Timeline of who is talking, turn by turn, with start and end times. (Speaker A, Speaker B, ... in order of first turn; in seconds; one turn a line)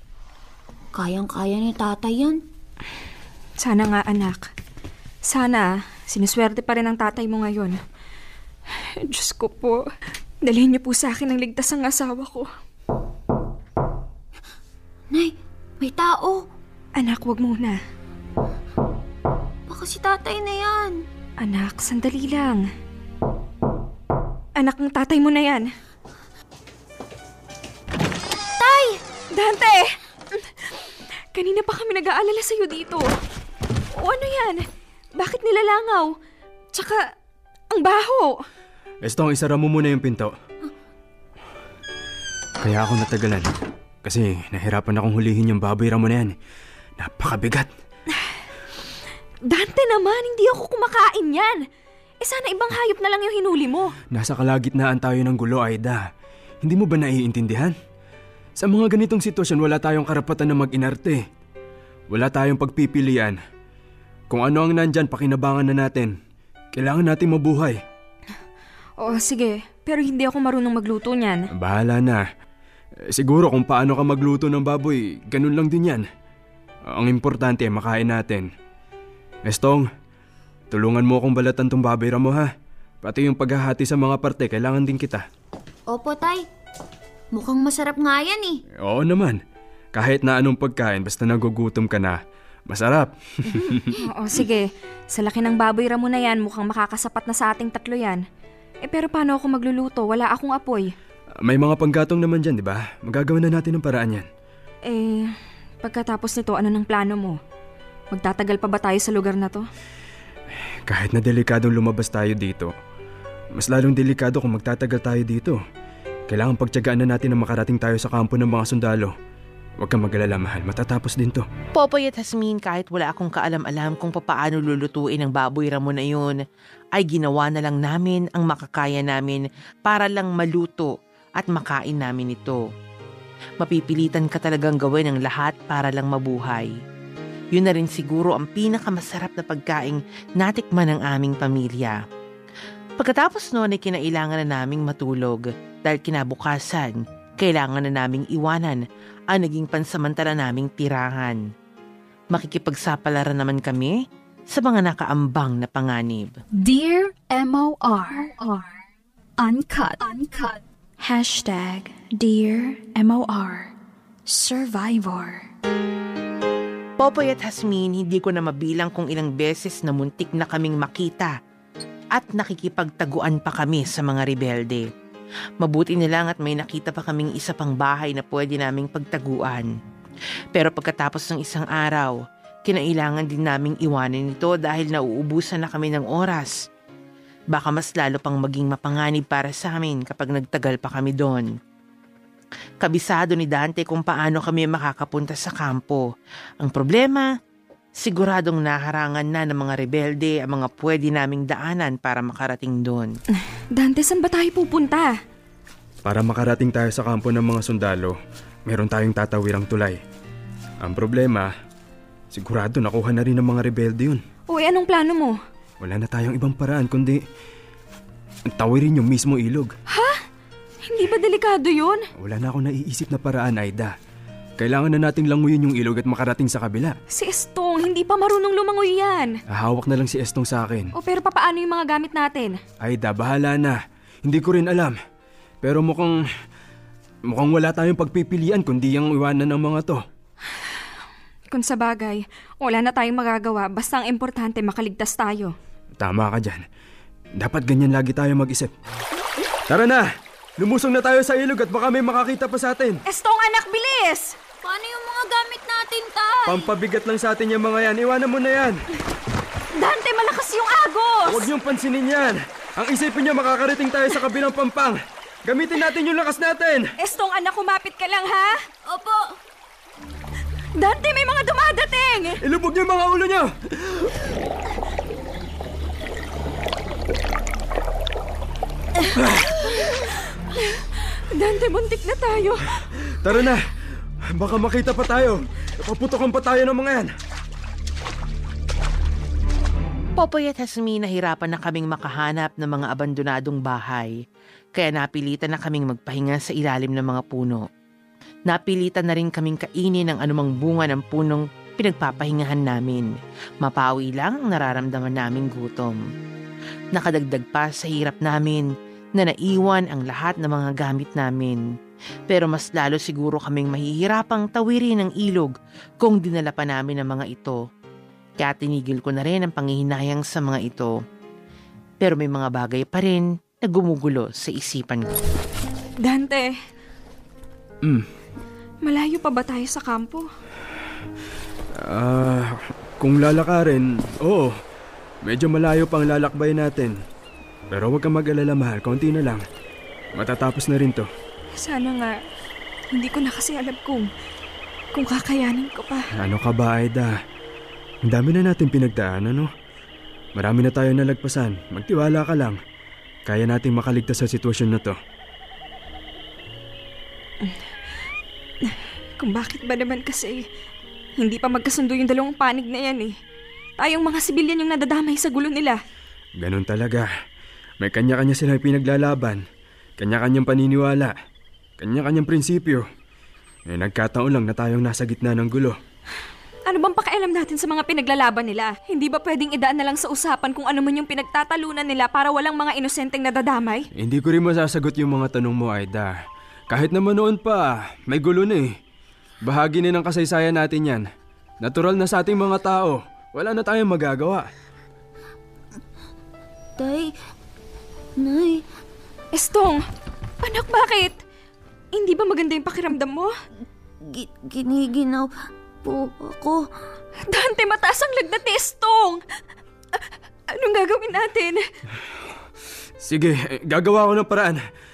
Speaker A: 1.0-2.4
Speaker B: 3.6-4.5
Speaker B: 5.3-7.8
Speaker B: 9.0-9.9
Speaker B: 10.4-12.5
Speaker A: 15.1-16.5
Speaker B: 17.0-17.8
Speaker A: 19.7-21.0
Speaker B: 21.4-22.6
Speaker B: 24.6-25.7
Speaker A: 28.6-29.0
Speaker B: 29.4-30.4
Speaker B: 31.3-33.1
Speaker B: 34.0-34.6
Speaker B: 35.2-36.1
Speaker B: 36.8-37.0
Speaker B: 37.7-38.3
Speaker C: 39.0-40.3
Speaker C: 42.6-43.5
Speaker C: 44.0-46.4
Speaker C: 47.0-47.7
Speaker B: 49.5-51.6
Speaker B: 52.2-53.9
Speaker C: 54.1-56.0
Speaker C: 56.6-57.7
Speaker C: 58.6-61.2
Speaker C: 62.1-63.4
Speaker C: 64.3-66.1
Speaker C: 66.8-67.8
Speaker B: 69.0-71.5
Speaker C: 71.5-72.2
Speaker C: 73.1-76.0
Speaker C: 76.9-78.5
Speaker C: 79.5-79.9
Speaker C: 80.7-82.5
Speaker C: 83.0-85.2
Speaker A: 85.9-86.4
Speaker A: 87.3-88.6
Speaker C: 88.8-89.4
Speaker C: 89.9-93.9
Speaker B: 94.0-98.2
Speaker B: 98.8-100.9
Speaker C: 101.5-104.3
Speaker B: 104.9-107.4
Speaker B: 108.1-109.6
Speaker C: 110.9-112.7
Speaker C: 113.6-115.6
Speaker C: 116.3-119.1
Speaker C: 119.8-121.5
Speaker D: 121.8-126.4
Speaker D: 127.0-132.6
Speaker D: 133.6-136.7
Speaker D: 137.6-142.0
Speaker D: 143.0-151.4
Speaker D: 152.3-153.9
Speaker D: 154.5-156.4
Speaker E: 156.6-158.7
Speaker E: 159.4-163.7
Speaker E: 164.3-165.5
Speaker D: 167.0-171.3
Speaker D: 172.1-174.9
Speaker D: 175.6-179.7
Speaker D: 180.6-182.1
Speaker D: 182.7-186.6
Speaker D: 187.5-191.5
Speaker D: 192.8-196.1
Speaker D: 196.6-197.3
Speaker D: 198.0-203.1
Speaker B: 203.8-205.2
Speaker C: 206.1-208.2
Speaker C: 208.7-210.0
Speaker C: 210.8-211.5
Speaker C: 212.3-214.2
Speaker B: 214.5-215.4
Speaker C: 215.8-217.2
Speaker C: 218.5-219.7
Speaker B: 219.9-220.2
Speaker B: 220.9-222.1
Speaker C: 222.2-223.9
Speaker C: 224.6-226.9
Speaker B: 227.1-229.3
Speaker C: 229.5-230.9
Speaker B: 230.9-232.6
Speaker C: 232.8-235.0
Speaker C: 235.6-236.2
Speaker C: 237.3-240.0
Speaker B: 241.5-245.5
Speaker C: 246.0-246.6
Speaker C: 247.4-248.7
Speaker C: 249.7-250.1
Speaker C: 250.6-253.0
Speaker B: 253.1-254.3
Speaker A: 254.6-256.7
Speaker C: 256.5-258.8
Speaker B: 259.8-261.4
Speaker C: 261.2-266.9
Speaker B: 267.0-268.6
Speaker A: 268.9-269.4
Speaker B: 270.8-272.4
Speaker C: 272.4-274.1
Speaker C: 279.2-279.5
Speaker B: 279.6-282.7
Speaker C: 283.2-283.7
Speaker C: 284.4-287.1
Speaker D: 290.2-294.1
Speaker D: 294.8-297.7
Speaker D: 298.5-303.1
Speaker D: 303.6-306.0
Speaker D: 306.9-311.6
Speaker D: 312.3-317.6
Speaker D: 318.4-320.9
Speaker D: 322.0-325.1
Speaker B: 326.0-326.5
Speaker B: 328.8-330.3
Speaker C: 331.8-334.5
Speaker C: 335.2-337.0
Speaker C: 337.7-339.4
Speaker C: 340.1-341.1
Speaker B: 341.6-342.2
Speaker B: 342.9-344.1
Speaker B: 344.9-346.1
Speaker C: 346.2-347.2
Speaker C: 348.1-349.5
Speaker C: 350.4-352.6
Speaker C: 353.3-355.0
Speaker B: 358.7-360.4
Speaker B: 361.2-363.1
Speaker B: 363.8-365.8
Speaker C: 366.4-367.1
Speaker C: 367.8-369.4
Speaker C: 370.0-371.1
Speaker C: 371.8-372.9
Speaker C: 373.7-375.8
Speaker B: 376.7-383.9
Speaker C: 384.0-386.1
Speaker C: 386.7-388.7
Speaker C: 389.4-391.1
Speaker C: 391.6-394.5
Speaker A: 396.8-397.1
Speaker A: 398.2-398.6
Speaker B: 399.3-399.8
Speaker B: 400.4-401.1
Speaker B: 401.9-403.3
Speaker A: 404.0-405.3
Speaker A: 405.8-406.6
Speaker B: 407.3-409.2
Speaker B: 410.5-411.6
Speaker C: 413.0-414.6